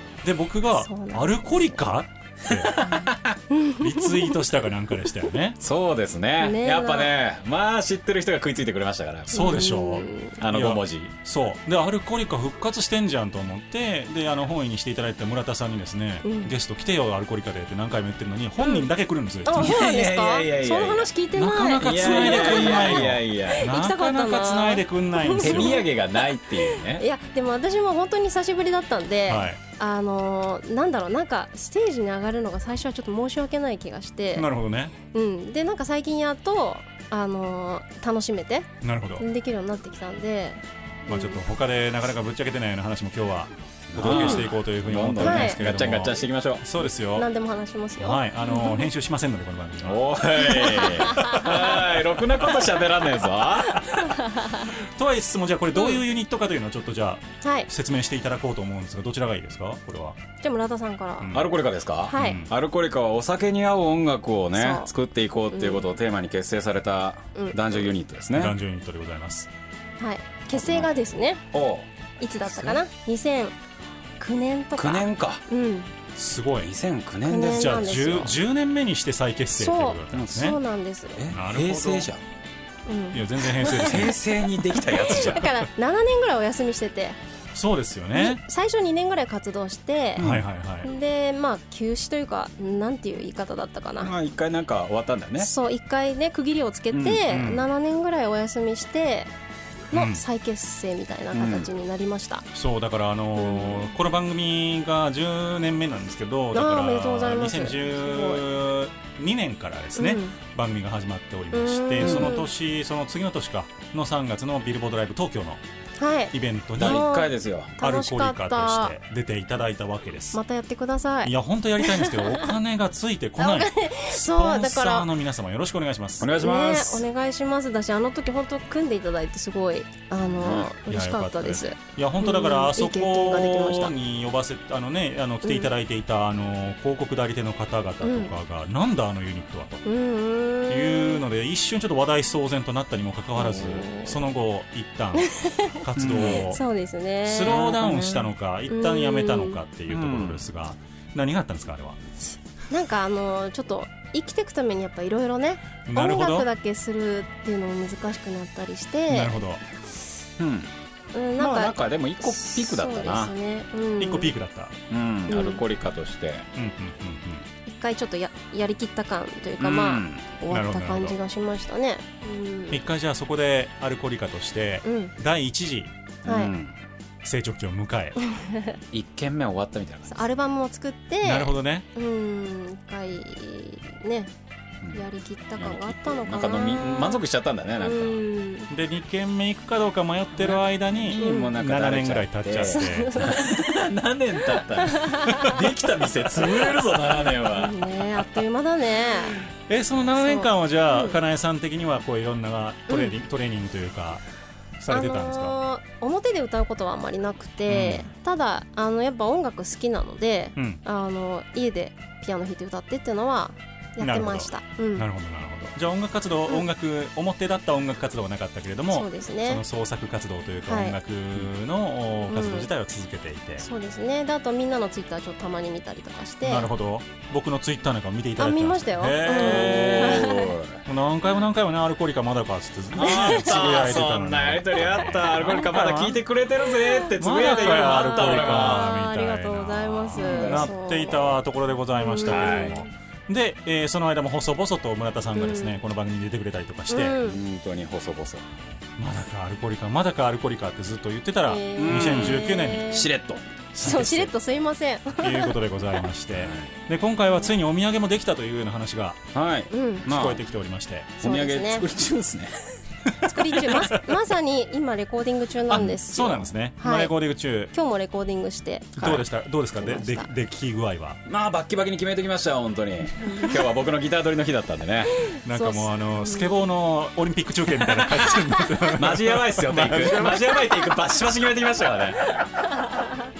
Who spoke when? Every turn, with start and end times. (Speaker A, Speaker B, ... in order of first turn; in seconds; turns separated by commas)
Speaker A: 0.2-2.9, Speaker B: 0.7-1.8, Speaker C: 2.5-3.4, Speaker B: 3.5-4.3, Speaker A: 3.7-5.6, Speaker C: 5.6-9.6, Speaker B: 6.4-7.1, Speaker B: 9.3-10.4, Speaker A: 9.3-19.9, Speaker C: 10.4-11.1, Speaker B: 16.2-16.5, Speaker B: 18.6-18.9, Speaker B: 19.4-34.5, Speaker C: 19.5-21.1, Speaker A: 21.3-25.8, Speaker C: 21.8-23.7, Speaker C: 25.4-27.0, Speaker A: 29.3-29.6, Speaker A: 34.3-34.9, Speaker B: 35.1-38.7, Speaker A: 38.8-39.2, Speaker B: 39.2-41.4, Speaker A: 41.1-47.3, Speaker C: 43.9-46.6, Speaker B: 44.0-44.5, Speaker B: 45.2-45.6, Speaker B: 46.8-48.9, Speaker A: 48.0-50.1, Speaker C: 49.8-53.9, Speaker B: 50.4-51.5, Speaker A: 51.1-51.5, Speaker B: 53.9-54.7, Speaker A: 55.0-60.2, Speaker B: 55.7-56.0, Speaker B: 57.4-57.7, Speaker B: 60.4-61.3, Speaker A: 61.2-61.5, Speaker C: 61.3-68.5, Speaker B: 62.0-62.4, Speaker A: 62.2-62.5, Speaker B: 64.5-64.9, Speaker B: 65.5-65.8, Speaker B: 67.3-67.9, Speaker A: 68.3-69.5, Speaker B: 70.0-71.4, Speaker C: 70.5-70.9, Speaker C: 71.5-71.9, Speaker B: 72.2-73.5, Speaker C: 72.5-72.7, Speaker B: 74.2-75.9, Speaker C: 74.8-75.4, Speaker A: 76.2-76.7, Speaker C: 76.6-78.0, Speaker B: 77.3-78.4, Speaker A: 77.5-80.6, Speaker B: 79.6-81.2, Speaker C: 80.1-80.5, Speaker C: 81.2-82.2, Speaker A: 81.3-82.1, Speaker B: 82.9-84.1, Speaker A: 83.1-84.2, Speaker C: 83.6-85.5, Speaker B: 84.8-87.2, Speaker A: 85.1-85.5, Speaker A: 87.5-88.4, Speaker B: 88.1-90.2, Speaker C: 90.2-90.4, Speaker A: 90.2-90.9, Speaker B: 90.8-94.1, Speaker C: 94.0-95.5, Speaker B: 95.4-99.3, Speaker C: 96.9-97.3, Speaker A: 97.3-97.7, Speaker B: 99.9-102.5, Speaker A: 99.9-100.2, Speaker C: 101.3-101.7, Speaker A: 102.5-115.6, Speaker B: 103.3-103.9, Speaker B: 106.5-108.5, Speaker B: 110.0-110.3, Speaker B: 111.5-112.5, Speaker C: 112.0-112.3, Speaker B: 116.0-118.9, Speaker A: 116.3-117.1, Speaker C: 116.8-117.7, Speaker A: 117.8-120.4, Speaker B: 120.3-122.5, Speaker A: 121.2-126.3, Speaker B: 123.4-125.1, Speaker C: 126.2-127.0, Speaker B: 126.3-133.9, Speaker C: 130.3-130.7, Speaker A: 130.9-139.8, Speaker B: 135.4-135.7, Speaker B: 138.0-138.3, Speaker B: 139.8-141.2, Speaker A: 140.7-146.6, Speaker B: 143.4-144.2, Speaker B: 145.2-149.6, Speaker C: 146.0-146.4, Speaker A: 147.2-152.0, Speaker C: 147.4-148.0, Speaker C: 149.9-150.4, Speaker B: 152.7-159.3, Speaker A: 155.8-156.4, Speaker A: 159.1-159.6, Speaker C: 160.4-160.7, Speaker B: 161.1-164.3, Speaker C: 161.4-163.3, Speaker A: 164.0-164.8, Speaker C: 164.9-166.5, Speaker B: 165.3-165.6, Speaker A: 166.6-167.4, Speaker B: 167.6-172.8, Speaker C: 169.6-170.2, Speaker A: 170.5-171.1, Speaker A: 172.7-175.9, Speaker B: 174.8-175.1, Speaker C: 176.2-176.8, Speaker B: 176.2-176.5, Speaker A: 177.2-178.2, Speaker B: 178.3-178.8, Speaker C: 178.9-180.2, Speaker B: 180.1-184.3, Speaker A: 181.2-181.8, Speaker B: 184.9-187.2, Speaker C: 185.6-188.2, Speaker B: 187.8-188.7, Speaker A: 188.7-193.3, Speaker C: 190.4-197.8, Speaker B: 191.2-191.5, Speaker B: 192.7-193.6, Speaker B: 194.8-195.5, Speaker B: 197.5-199.5, Speaker A: 199.7-204.2, Speaker B: 200.2-201.2, Speaker B: 202.9-203.1, Speaker A: 204.8-205.6, Speaker B: 204.9-215.0, Speaker A: 207.7-208.1, Speaker A: 214.0-223.6, Speaker B: 218.9-219.6, Speaker B: 220.7-220.9, Speaker B: 222.3-222.7, Speaker B: 223.6-226.7, Speaker A: 226.4-230.3, Speaker B: 228.4-230.5, Speaker C: 229.3-230.8, Speaker A: 230.8-236.2, Speaker C: 232.9-238.8, Speaker B: 233.0-233.8, Speaker B: 236.8-241.4, Speaker A: 237.2-247.2, Speaker C: 240.2-240.7, Speaker B: 241.9-242.9, Speaker C: 242.3-242.8, Speaker B: 245.3-245.8, Speaker B: 246.9-247.4, Speaker C: 247.2-248.5, Speaker A: 249.0-253.0, Speaker B: 251.5-253.1, Speaker C: 251.8-253.4, Speaker A: 253.8-254.3, Speaker B: 253.8-255.5, Speaker A: 255.2-259.3, Speaker C: 256.3-256.7, Speaker C: 259.3-260.4, Speaker B: 259.7-260.1, Speaker A: 260.0-261.1, Speaker C: 261.2-262.8, Speaker B: 261.2-261.9, Speaker A: 263.1-264.0, Speaker B: 263.2-267.1, Speaker A: 265.7-267.7, Speaker B: 267.7-269.3, Speaker A: 269.0-271.2, Speaker B: 269.8-270.3, Speaker C: 271.2-275.2, Speaker B: 273.2-273.6, Speaker B: 275.3-276.6, Speaker A: 275.4-280.8, Speaker C: 279.0-282.2, Speaker B: 282.4-283.1